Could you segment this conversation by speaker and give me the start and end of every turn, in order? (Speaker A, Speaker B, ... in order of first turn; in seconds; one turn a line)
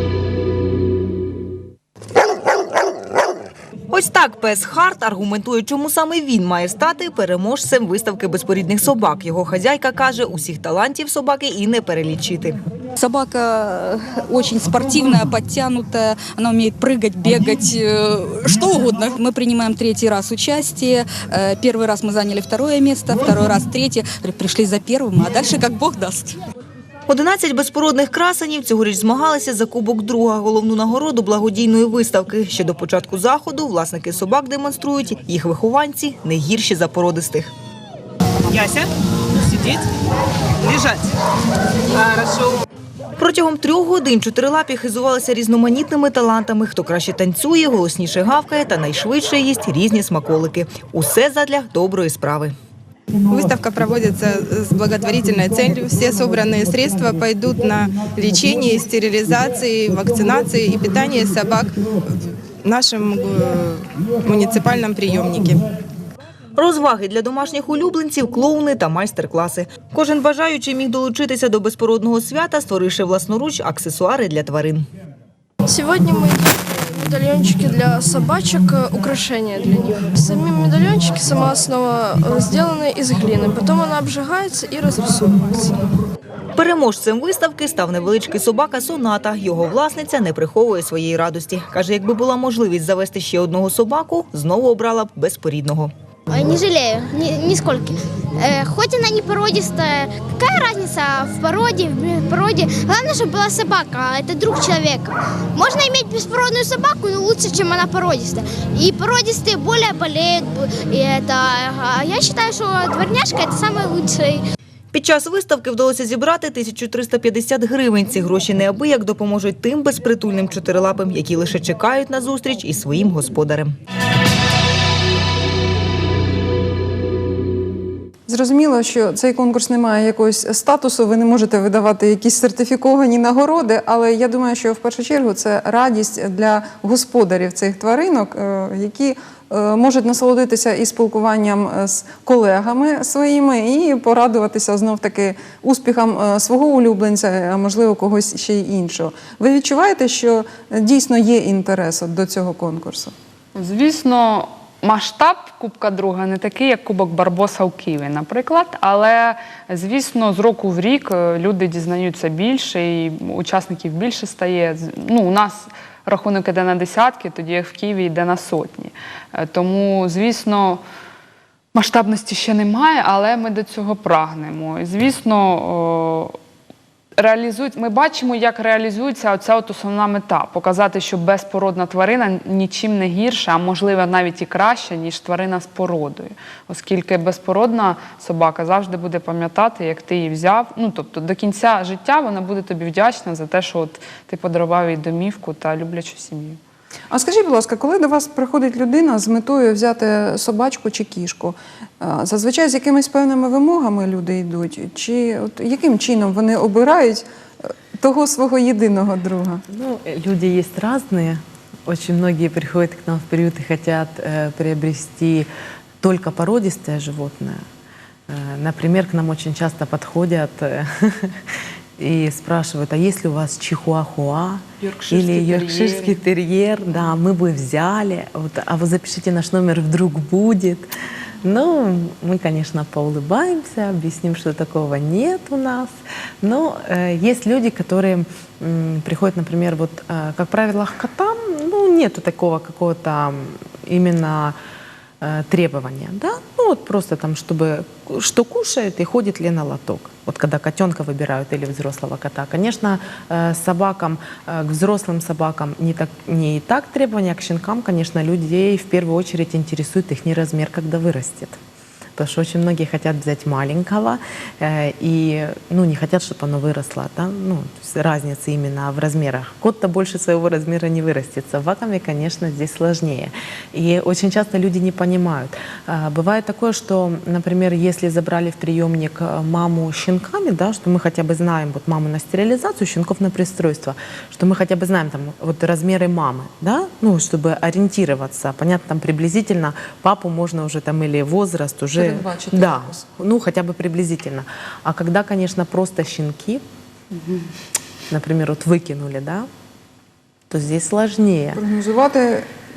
Speaker A: 3.9-12.6
Speaker B: 13.0-26.3
Speaker A: 27.1-37.5
Speaker A: 40.6-40.9
Speaker A: 43.2-52.5
Speaker C: 53.3-65.7
Speaker A: 66.6-74.8
Speaker D: 75.6-85.8
Speaker A: 86.5-95.9
Speaker E: 96.3-114.4
Speaker A: 114.9-123.8
Speaker F: 128.3-153.1
Speaker G: 153.5-170.8
Speaker G: 171.7-176.4
Speaker G: 177.2-196.6
Speaker F: 197.1-209.6
Speaker H: 209.7-215.5
Speaker H: 216.0-217.6
Speaker H: 218.3-230.9
Speaker G: 224.8-226.2
Speaker H: 231.4-244.6
Speaker H: 245.2-261.6
Speaker H: 262.1-296.6
Speaker F: 291.9-293.0
Speaker H: 298.1-299.5
Speaker H: 300.5-301.6
Speaker F: 301.6-302.4